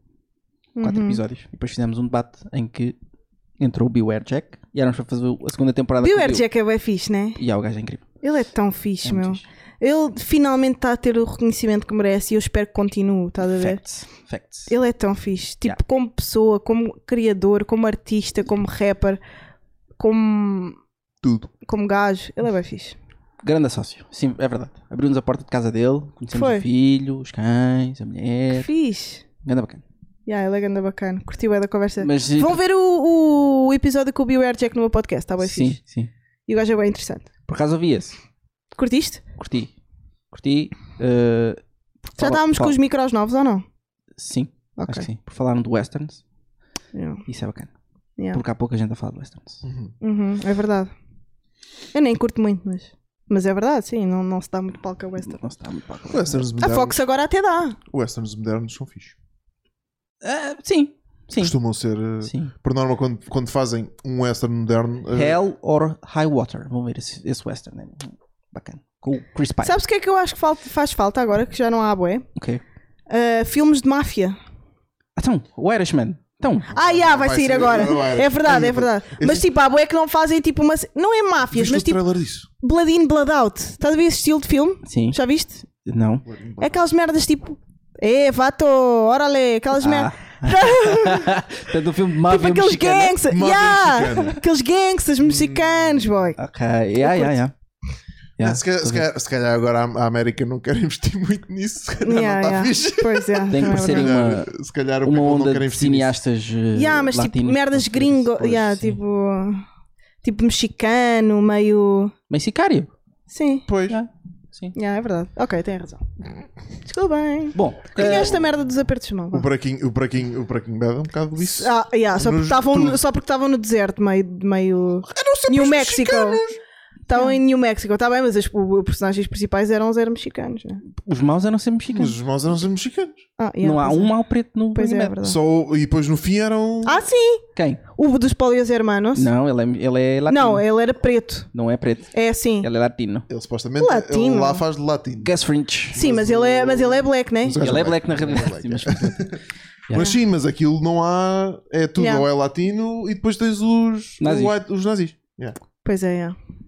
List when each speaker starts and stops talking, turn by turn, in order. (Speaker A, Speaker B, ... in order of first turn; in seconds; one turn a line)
Speaker A: 0.8-1.2
Speaker B: 0.8-2.9
Speaker B: 3.6-6.4
Speaker A: 6.0-7.4
Speaker B: 7.4-8.1
Speaker A: 8.2-13.8
Speaker B: 9.0-9.4
Speaker B: 13.5-14.7
Speaker A: 14.7-19.2
Speaker A: 20.0-20.8
Speaker C: 21.2-21.5
Speaker A: 21.6-22.9
Speaker B: 23.4-28.7
Speaker A: 26.3-26.6
Speaker A: 28.5-29.2
Speaker B: 29.4-29.8
Speaker A: 30.2-35.8
Speaker B: 32.0-32.6
Speaker B: 35.4-36.1
Speaker A: 36.5-37.3
Speaker B: 37.5-38.2
Speaker A: 38.7-39.2
Speaker B: 39.4-39.7
Speaker B: 40.3-42.8
Speaker A: 42.2-43.6
Speaker B: 44.2-46.2
Speaker A: 44.8-45.0
Speaker A: 46.9-47.2
Speaker B: 47.3-47.7
Speaker B: 48.3-49.6
Speaker C: 49.6-49.9
Speaker A: 50.0-50.9
Speaker A: 51.9-55.4
Speaker B: 55.2-56.4
Speaker C: 56.1-57.0
Speaker A: 56.6-57.8
Speaker C: 57.9-59.1
Speaker B: 60.2-61.5
Speaker C: 61.4-65.4
Speaker B: 62.2-62.5
Speaker B: 65.1-69.8
Speaker A: 69.6-72.2
Speaker B: 72.3-72.6
Speaker A: 73.1-74.4
Speaker B: 75.2-76.7
Speaker C: 76.7-79.5
Speaker A: 76.7-82.0
Speaker C: 81.5-82.5
Speaker A: 82.6-85.6
Speaker B: 84.8-85.2
Speaker B: 85.7-86.2
Speaker C: 86.2-86.8
Speaker A: 86.6-91.3
Speaker B: 89.8-93.2
Speaker A: 92.3-96.4
Speaker C: 93.3-94.4
Speaker C: 95.2-96.1
Speaker B: 96.4-97.5
Speaker A: 97.0-97.3
Speaker B: 98.4-99.0
Speaker C: 98.4-106.2
Speaker A: 102.0-104.1
Speaker B: 103.5-104.5
Speaker B: 105.0-109.0
Speaker A: 106.7-109.6
Speaker A: 110.2-112.1
Speaker B: 112.3-112.9
Speaker A: 113.3-113.7
Speaker C: 113.7-114.0
Speaker B: 113.9-114.7
Speaker A: 114.7-116.0
Speaker A: 116.8-119.5
Speaker B: 117.5-118.3
Speaker C: 118.0-118.5
Speaker C: 119.3-123.0
Speaker A: 121.4-126.4
Speaker C: 125.1-126.6
Speaker A: 127.1-130.8
Speaker B: 131.0-132.2
Speaker C: 131.9-133.2
Speaker A: 133.4-134.1
Speaker B: 133.6-135.2
Speaker A: 134.7-135.4
Speaker C: 135.2-137.1
Speaker A: 136.8-137.4
Speaker A: 137.9-139.3
Speaker B: 139.2-140.7
Speaker A: 140.3-141.5
Speaker B: 141.5-143.3
Speaker A: 142.1-142.7
Speaker C: 143.3-145.3
Speaker A: 143.8-144.6
Speaker B: 145.2-146.0
Speaker C: 145.9-149.4
Speaker A: 145.9-147.7
Speaker B: 147.6-150.1
Speaker C: 149.9-155.6
Speaker A: 152.0-152.2
Speaker B: 154.2-154.6
Speaker A: 155.8-156.3